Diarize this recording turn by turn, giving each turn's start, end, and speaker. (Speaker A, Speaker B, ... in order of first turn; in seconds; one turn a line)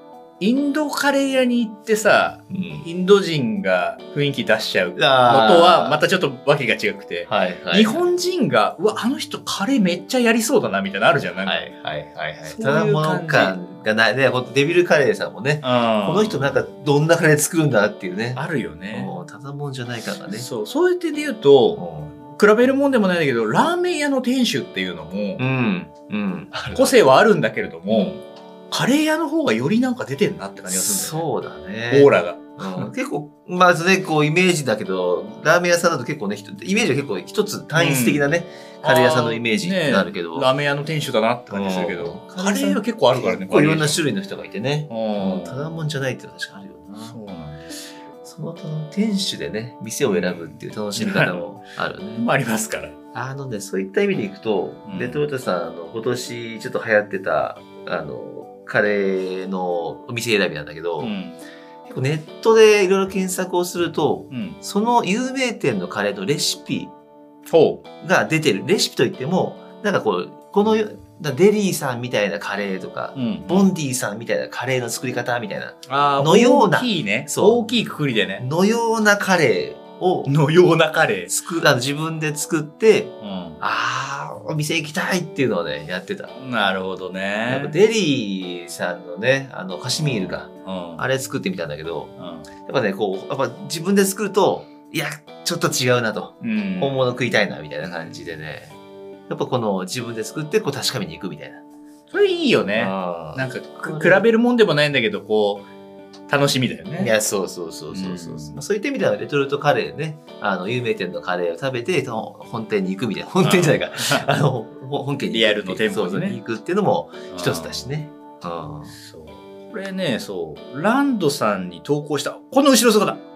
Speaker A: 0.4-11.7
Speaker B: 2.5-2.9
Speaker B: 5.0-6.0
Speaker B: 7.3-8.1
Speaker B: 11.4-20.5
Speaker A: 12.4-13.6
Speaker A: 15.6-16.6
Speaker A: 18.4-19.1
Speaker A: 20.3-25.4
Speaker B: 21.8-22.2
Speaker B: 25.4-27.0
Speaker A: 26.7-31.2
Speaker B: 30.7-40.5
Speaker A: 31.9-32.9
Speaker A: 37.7-38.3
Speaker A: 38.8-44.0
Speaker B: 41.5-47.1
Speaker A: 44.9-45.8
Speaker A: 46.9-48.0
Speaker B: 48.2-52.3
Speaker A: 50.1-51.4
Speaker A: 52.2-53.0
Speaker B: 53.1-61.1
Speaker A: 54.9-55.2
Speaker A: 61.0-61.4
Speaker B: 61.9-66.9
Speaker A: 64.3-64.6
Speaker A: 67.5-67.8
Speaker B: 68.0-77.7
Speaker A: 73.1-73.7
Speaker A: 75.9-78.4
Speaker B: 78.4-80.3
Speaker A: 80.3-81.3
Speaker B: 81.3-86.3
Speaker A: 83.2-83.6
Speaker A: 86.3-87.8
Speaker B: 87.5-98.8
Speaker A: 90.0-91.0
Speaker A: 92.2-92.5
Speaker A: 96.4-97.0
Speaker B: 99.3-101.6
Speaker A: 102.1-105.7
Speaker B: 102.8-104.3
Speaker A: 106.3-107.1
Speaker B: 107.0-119.0
Speaker A: 107.9-108.6
Speaker A: 113.4-114.3
Speaker A: 115.3-116.4
Speaker A: 117.3-117.9
Speaker A: 119.0-123.2